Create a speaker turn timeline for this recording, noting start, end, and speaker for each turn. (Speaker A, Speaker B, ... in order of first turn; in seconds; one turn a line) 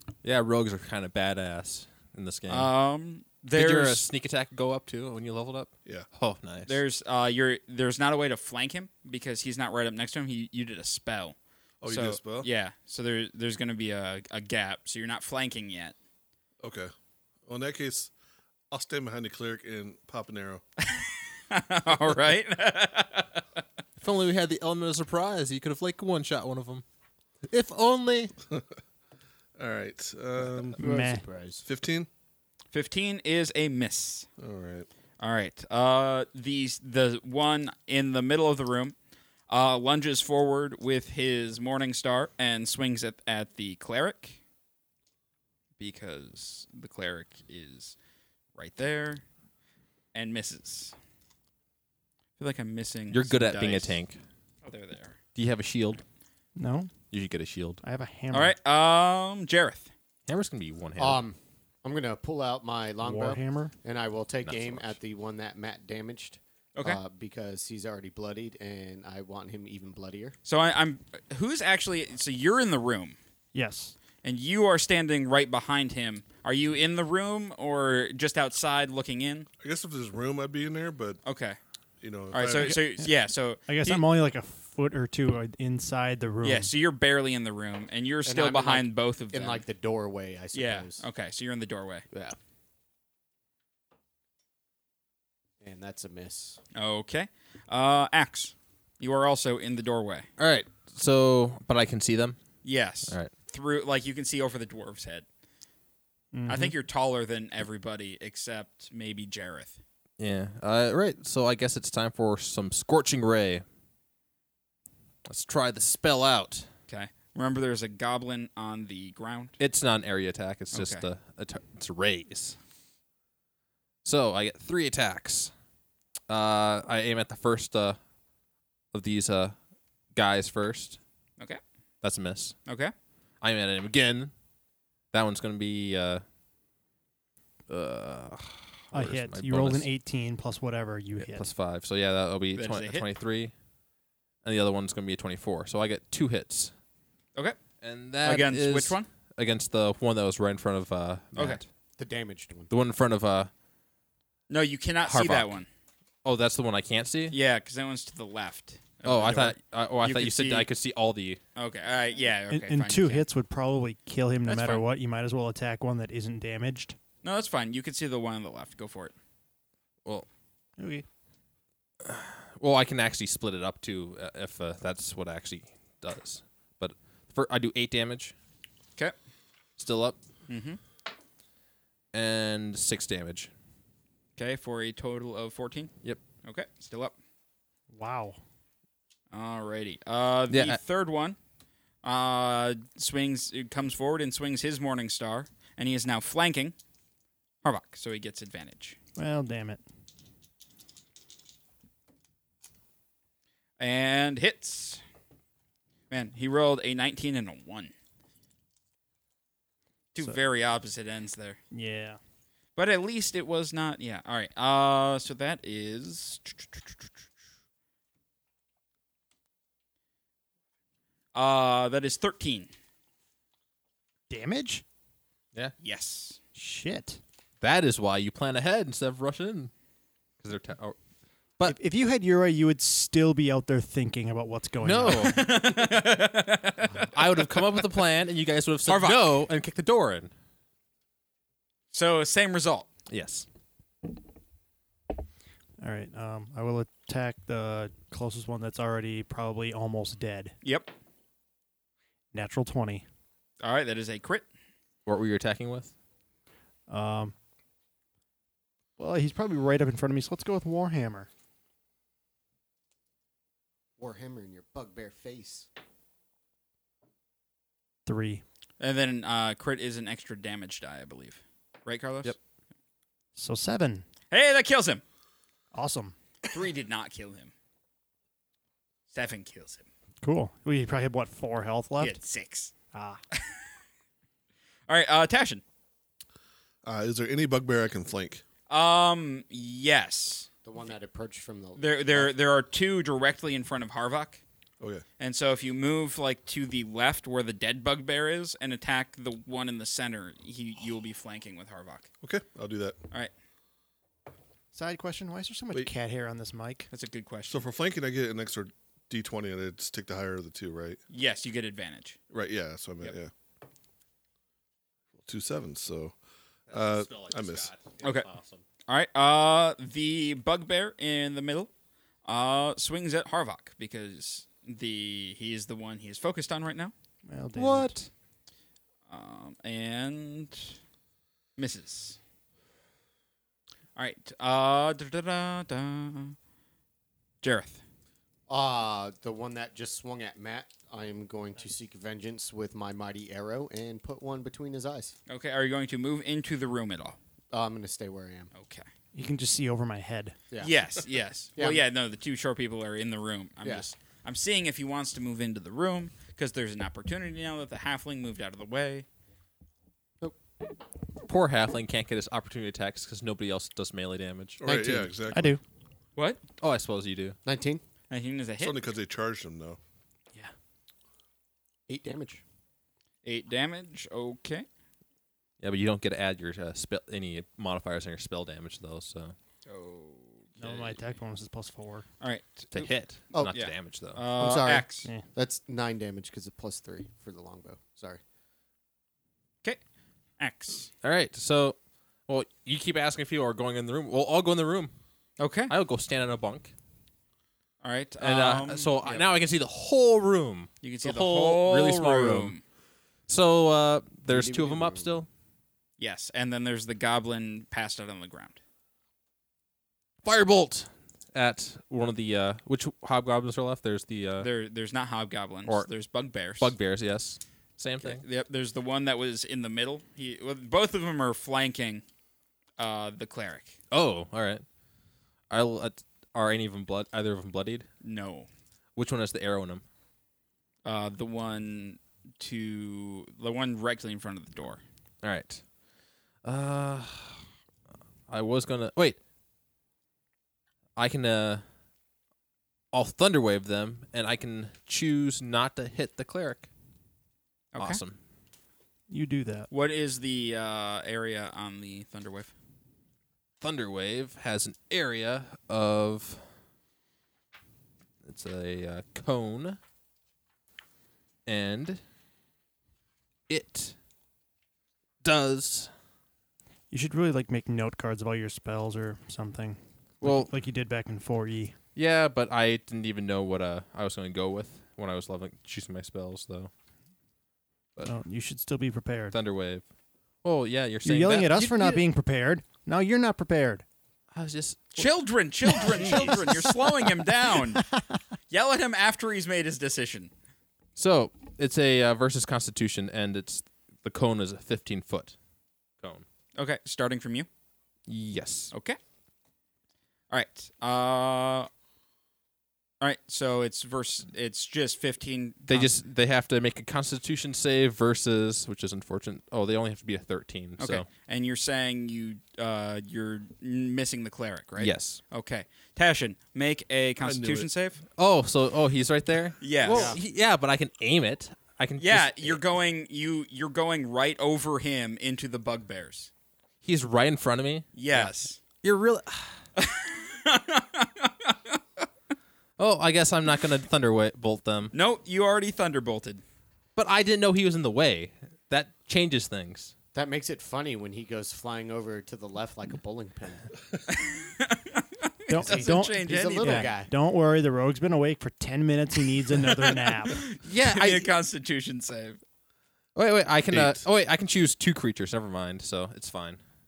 Speaker A: 0.2-2.7
Speaker B: 2.5-4.1
Speaker A: 3.5-6.8
Speaker B: 6.7-11.3
Speaker C: 11.8-12.5
Speaker B: 11.9-15.9
Speaker C: 16.6-16.9
Speaker C: 17.4-18.1
Speaker C: 18.7-20.6
Speaker B: 20.9-23.4
Speaker A: 24.0-26.8
Speaker A: 27.5-28.3
Speaker C: 29.6-30.8
Speaker D: 30.8-31.6
Speaker E: 30.8-31.2
Speaker C: 31.6-32.1
Speaker B: 32.7-34.3
Speaker C: 34.4-34.9
Speaker B: 35.2-39.0
Speaker B: 39.5-44.4
Speaker B: 45.8-47.9
Speaker B: 48.5-49.2
Speaker B: 50.1-51.0
Speaker B: 52.4-54.0
Speaker A: 53.1-54.2
Speaker B: 54.6-55.2
Speaker A: 55.3-56.0
Speaker E: 56.5-56.9
Speaker A: 57.1-57.8
Speaker E: 57.8-58.5
Speaker B: 58.3-59.9
Speaker A: 60.3-61.2
Speaker D: 61.0-70.3
Speaker E: 63.0-63.7
Speaker A: 64.4-65.0
Speaker B: 66.7-67.0
Speaker B: 70.4-73.2
Speaker E: 73.5-73.9
Speaker B: 74.2-79.5
Speaker C: 79.6-81.2
Speaker B: 81.2-81.6
Speaker C: 82.0-83.1
Speaker B: 82.3-84.0
Speaker E: 83.7-86.7
Speaker B: 86.4-89.6
Speaker D: 88.2-91.0
Speaker B: 90.5-92.0
Speaker D: 95.6-96.6
Speaker B: 96.7-100.3
Speaker A: 100.4-102.4
Speaker B: 102.6-105.2
Speaker E: 106.3-106.7
Speaker B: 106.5-109.8
Speaker A: 110.2-113.6
Speaker A: 115.2-116.7
Speaker B: 116.9-119.6
Speaker A: 119.6-122.6
Speaker B: 120.7-121.0
Speaker A: 124.0-125.5
Speaker A: 126.3-128.0
Speaker A: 128.9-129.6
Speaker A: 130.1-131.0
Speaker A: 132.0-132.5
Speaker B: 132.7-132.9
Speaker A: 133.4-134.3
Speaker A: 135.1-136.2
Speaker A: 137.7-139.9
Speaker E: 138.9-141.5
Speaker A: 141.2-143.5
Speaker B: 142.5-143.1
Speaker A: 144.4-146.7
Speaker A: 147.8-151.7
Speaker B: 148.2-149.1
Speaker B: 151.3-151.6
Speaker D: 152.0-152.7
Speaker A: 152.7-153.5
Speaker B: 154.5-155.7
Speaker A: 155.0-155.5
Speaker A: 156.2-157.3
Speaker B: 157.3-160.7
Speaker A: 159.0-161.4
Speaker B: 161.6-163.2
Speaker E: 162.5-166.9
Speaker B: 164.5-164.8
Speaker B: 167.2-169.1
Speaker E: 170.8-171.1
Speaker A: 172.0-178.3
Speaker A: 179.8-180.2
Speaker B: 180.5-180.8
Speaker A: 182.1-183.5
Speaker B: 184.4-185.9
Speaker B: 186.4-187.1
Speaker E: 187.9-188.4
Speaker B: 189.3-191.4
Speaker A: 190.5-190.8
Speaker B: 192.0-196.7
Speaker B: 197.6-199.0
Speaker E: 199.2-199.8
Speaker B: 203.8-205.0
Speaker B: 206.1-207.9
Speaker B: 210.1-211.6
Speaker E: 211.7-212.2
Speaker B: 212.8-216.9
Speaker B: 221.3-222.7
Speaker E: 224.3-224.8
Speaker B: 225.8-226.4
Speaker E: 226.5-227.2
Speaker A: 227.6-229.7
Speaker A: 230.4-231.0
Speaker E: 231.6-235.5
Speaker A: 234.8-235.9
Speaker B: 235.2-237.8
Speaker A: 236.9-240.3
Speaker B: 238.9-239.3
Speaker B: 241.9-242.9
Speaker A: 243.1-243.4
Speaker E: 245.8-250.5
Speaker B: 250.6-250.9
Speaker E: 252.3-253.0
Speaker B: 253.6-254.4
Speaker A: 255.1-255.9
Speaker E: 256.9-257.3
Speaker E: 259.0-261.3
Speaker D: 264.0-265.7
Speaker E: 268.1-268.4
Speaker B: 268.8-272.4
Speaker E: 273.4-274.1
Speaker B: 274.3-275.0
Speaker E: 275.7-276.1
Speaker B: 276.5-277.5
Speaker B: 279.1-279.9
Speaker E: 280.2-282.2
Speaker B: 282.0-282.7
Speaker E: 282.9-283.2
Speaker B: 284.9-285.6
Speaker C: 286.8-288.4
Speaker B: 288.7-290.5
Speaker D: 290.6-292.3
Speaker B: 291.8-294.4
Speaker B: 295.2-302.1
Speaker C: 302.2-303.0
Speaker E: 304.7-306.9
Speaker B: 306.9-307.6
Speaker C: 307.5-311.0
Speaker B: 311.1-312.2
Speaker C: 312.3-313.3
Speaker C: 315.2-316.1
Speaker A: 316.7-318.6
Speaker C: 316.7-317.7
Speaker B: 318.0-318.3
Speaker B: 318.9-321.7
Speaker B: 322.2-326.9
Speaker E: 327.2-328.0
Speaker A: 327.5-328.1
Speaker B: 329.1-330.8
Speaker B: 331.6-332.2
Speaker B: 333.9-336.4
Speaker B: 337.4-337.8
Speaker D: 338.5-345.1
Speaker B: 345.3-347.2
Speaker D: 347.5-348.5
Speaker B: 348.5-348.9
Speaker E: 349.1-350.4
Speaker B: 350.6-359.1
Speaker D: 351.6-351.8
Speaker D: 353.6-353.9
Speaker A: 361.2-364.7
Speaker C: 364.6-365.6
Speaker D: 364.7-365.0
Speaker E: 365.3-365.6
Speaker B: 366.1-366.4
Speaker A: 366.6-367.4
Speaker D: 367.4-367.8
Speaker B: 368.1-368.8
Speaker C: 368.6-369.8
Speaker D: 371.9-372.4
Speaker B: 373.2-374.6
Speaker A: 375.6-379.3
Speaker B: 379.6-381.0
Speaker E: 380.6-382.1
Speaker B: 382.2-382.9
Speaker A: 382.7-384.2
Speaker B: 383.5-385.1
Speaker D: 384.4-388.2
Speaker B: 390.4-390.9
Speaker A: 391.0-394.9
Speaker B: 395.4-395.7
Speaker A: 395.7-396.7
Speaker B: 397.8-399.2
Speaker A: 398.2-402.5
Speaker B: 400.8-402.6
Speaker A: 403.3-405.3
Speaker D: 404.3-405.2
Speaker B: 406.0-408.6
Speaker A: 410.2-414.5
Speaker B: 414.4-416.7
Speaker A: 416.6-418.2
Speaker B: 418.0-422.0
Speaker B: 422.8-423.8
Speaker A: 423.9-424.6
Speaker A: 425.5-427.9
Speaker B: 428.0-428.5
Speaker A: 428.9-429.8
Speaker B: 430.8-434.8
Speaker A: 435.2-435.6
Speaker A: 436.4-437.4
Speaker A: 438.3-439.2
Speaker A: 440.9-441.6
Speaker A: 442.9-446.7
Speaker B: 447.7-448.0
Speaker A: 447.8-448.2
Speaker E: 449.1-449.7
Speaker B: 449.7-452.5
Speaker A: 453.6-456.4
Speaker A: 458.2-459.8
Speaker A: 461.4-462.0
Speaker A: 463.5-463.9
Speaker A: 465.2-465.9
Speaker E: 466.9-471.8
Speaker A: 470.2-470.5
Speaker A: 471.9-476.7
Speaker E: 478.0-479.4
Speaker A: 479.3-479.8
Speaker A: 480.4-482.0
Speaker E: 481.0-483.8
Speaker A: 484.3-485.1
Speaker B: 484.9-487.8
Speaker E: 485.6-488.0
Speaker A: 485.8-486.5
Speaker B: 488.5-490.3
Speaker A: 490.9-495.4
Speaker A: 496.0-496.2
Speaker B: 496.6-497.5
Speaker A: 498.1-498.7
Speaker B: 498.7-499.0
Speaker B: 500.3-501.7
Speaker B: 503.0-505.9
Speaker A: 505.7-511.1
Speaker B: 510.8-518.0
Speaker A: 514.8-515.2
Speaker C: 517.2-517.7
Speaker A: 518.2-522.6
Speaker B: 519.6-520.2
Speaker D: 519.8-520.2
Speaker B: 522.0-526.3
Speaker A: 526.8-529.6
Speaker B: 527.9-528.6
Speaker B: 529.8-531.8
Speaker A: 532.8-534.9
Speaker B: 534.9-536.4
Speaker A: 537.0-539.9
Speaker D: 540.1-543.7
Speaker B: 544.1-546.9
Speaker E: 545.5-550.5
Speaker D: 545.6-547.1
Speaker B: 549.7-552.4
Speaker A: 550.6-551.3
Speaker A: 553.1-556.6
Speaker C: 553.7-554.0